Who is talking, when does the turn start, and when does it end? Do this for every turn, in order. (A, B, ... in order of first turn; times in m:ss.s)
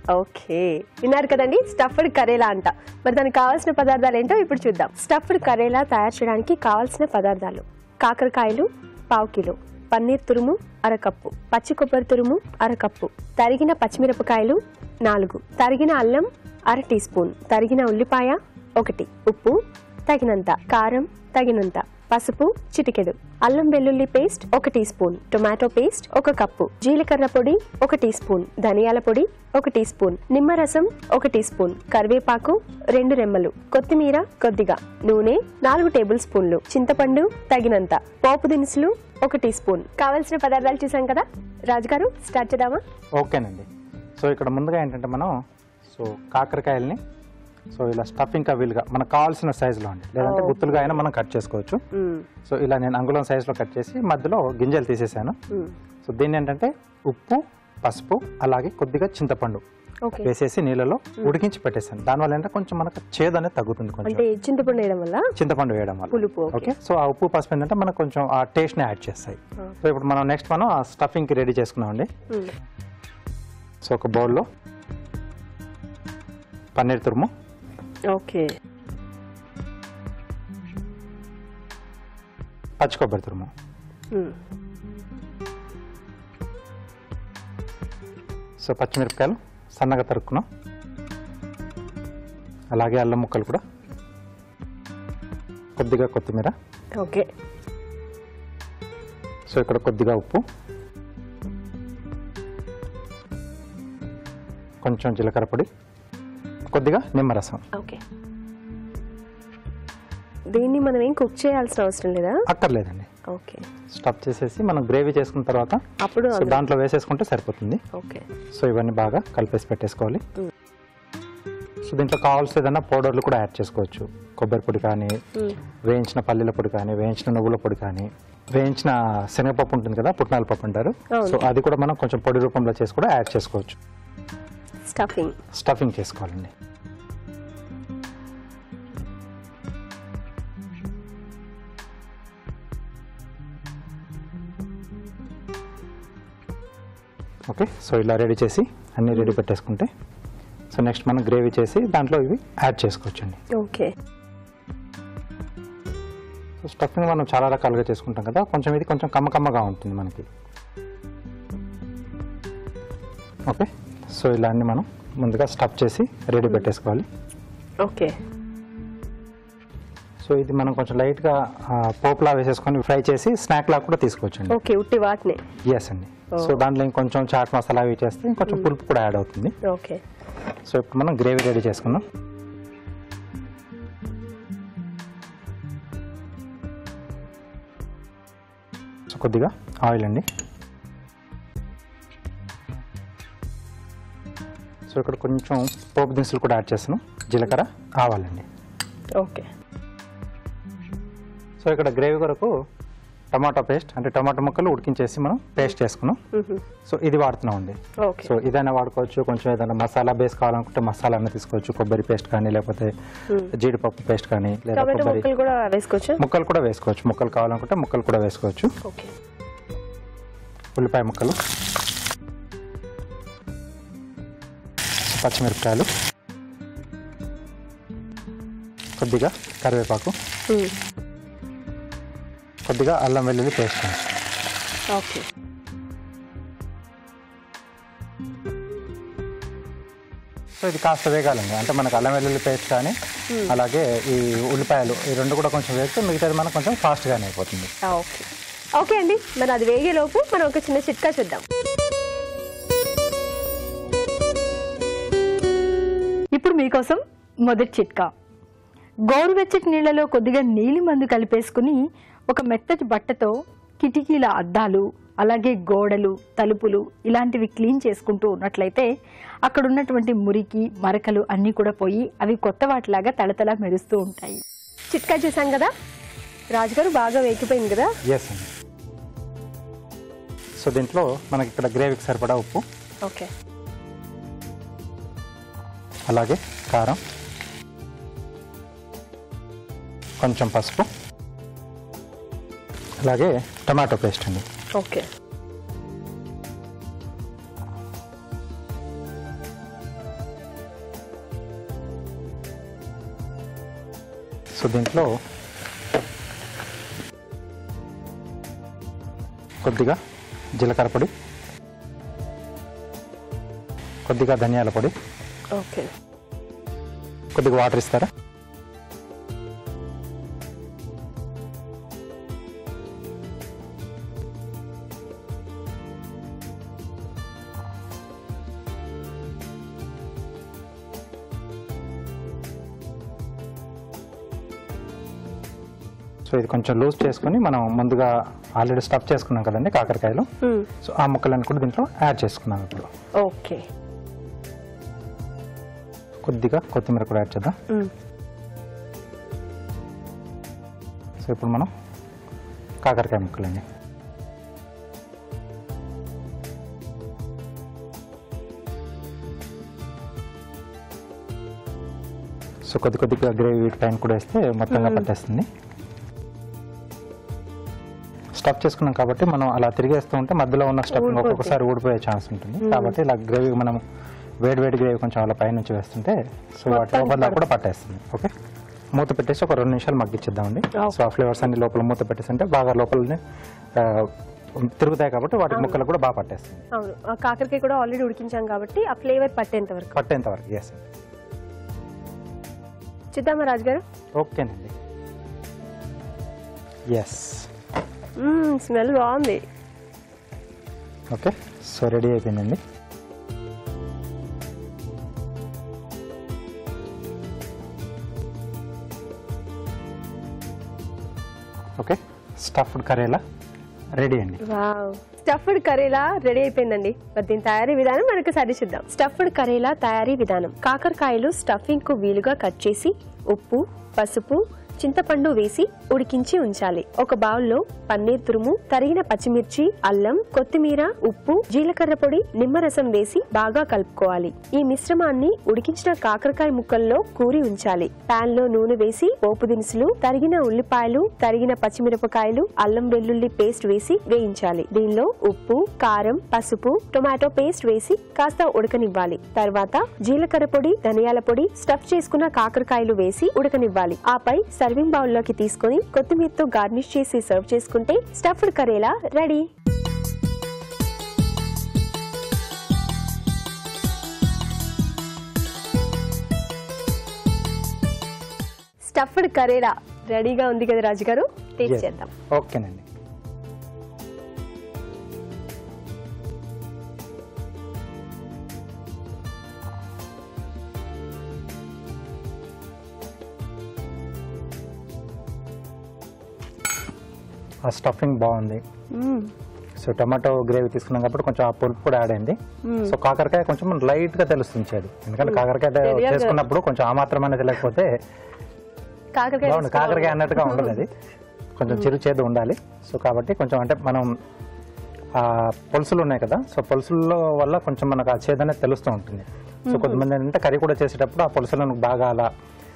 0:00.1-0:42.8 A
0:43.2-0:43.7 B
0:44.2-0:45.3 B
0:45.9-0:47.0 B
0:47.7-0:51.8 B
0:50.2-0:50.8 A
0:51.9-0:52.2 A
0:52.5-0:55.4 B
0:56.0-0:59.6 B
1:00.2-1:04.2 B
1:04.0-1:05.3 A
1:05.4-1:12.1 B
1:06.1-1:06.7 A
1:13.8-1:14.4 B
1:16.8-1:17.3 B
1:18.1-1:18.5 A
1:22.8-1:23.5 B
1:28.6-1:30.4 B
1:32.7-1:33.6 B
1:35.8-1:36.5 B
1:37.0-1:37.3 A
1:39.5-1:40.4 B
1:44.8-1:45.7 B
1:46.7-1:47.6 B
1:47.7-1:48.0 A
1:50.5-1:52.4 A
1:52.5-1:53.1 B
1:53.3-1:53.6 A
1:53.9-1:55.8 B
1:56.0-1:56.6 A
1:56.3-1:57.8 B
1:57.9-1:58.2 A
1:58.6-2:00.2 B
2:01.8-2:05.1 B
2:05.9-2:13.8 B
2:11.1-2:11.4 A
2:14.9-2:15.4 A
2:15.5-2:16.5 B
2:27.5-2:29.9 B
2:30.7-2:33.4 B
2:33.5-2:33.9 A
2:36.6-2:40.2 B
2:43.5-2:47.0 B
2:47.8-2:48.1 A
2:50.2-2:54.5 B
2:54.5-2:55.4 A
2:55.7-2:59.5 B
2:56.3-2:56.6 A
2:59.6-3:00.0 A
3:00.7-3:02.0 B
3:09.1-3:10.2 B
3:14.9-3:18.4 B
3:19.2-3:19.5 A
3:21.6-3:22.5 B
3:23.3-3:26.2 B
3:26.3-3:26.6 A
3:26.9-3:32.9 B
3:28.0-3:28.3 A
3:33.5-3:35.3 B
3:34.7-3:36.2 A
3:36.2-3:38.7 B
3:38.8-3:39.1 A
3:40.7-3:41.4 B
3:45.1-3:45.9 B
3:49.0-3:50.1 B
3:52.7-3:54.1 B
3:54.9-3:55.3 A
4:00.6-4:02.9 B
4:03.5-4:07.7 B
4:07.8-4:08.2 A
4:08.8-4:11.4 A
4:16.3-4:18.1 C
4:19.1-4:28.9 C
4:29.5-4:34.4 C
4:34.9-4:35.7 A
4:36.5-4:37.9 A
4:38.0-4:38.5 B
4:40.6-4:42.6 B
4:43.0-4:43.3 A
4:46.1-4:47.0 B
4:50.2-4:50.9 B
4:53.0-4:54.4 B
4:54.8-4:55.1 A
5:04.6-5:05.1 B
5:09.6-5:10.0 B
5:10.6-5:11.1 B
5:14.1-5:14.9 B
5:15.5-5:15.9 A
5:17.3-5:18.1 B
5:36.3-5:40.3 B
5:40.4-5:40.7 A
5:40.8-5:42.9 B
5:43.2-5:43.6 A
5:46.2-5:47.6 B
5:51.2-5:51.7 B
5:52.8-5:53.6 B
6:02.7-6:05.5 B
6:04.7-6:05.1 A
6:08.4-6:13.8 B
6:10.9-6:11.6 A
6:12.6-6:13.0 A
6:14.4-6:18.3 B
6:16.7-6:17.4 A
6:19.0-6:23.2 B
6:23.8-6:24.1 B
6:24.6-6:26.6 B
6:25.5-6:25.8 A
6:26.7-6:29.9 A
6:29.9-6:30.8 B
6:33.1-6:33.8 A
6:34.2-6:34.7 B
6:36.9-6:37.5 B
6:38.2-6:39.4 A
6:41.1-6:42.6 B
6:51.8-6:53.2 B
6:54.0-6:54.4 B
6:54.4-7:39.5 A
7:48.8-7:52.1 A
7:51.6-7:52.8 B
8:07.7-8:08.6 B
8:08.9-8:09.3 A
8:09.8-8:17.9 B
8:12.6-8:12.9 A
8:15.2-8:16.4 A
8:19.2-8:20.8 A
8:19.4-8:20.9 B
8:21.6-8:24.1 B
8:25.2-8:32.3 B
8:29.7-8:30.0 A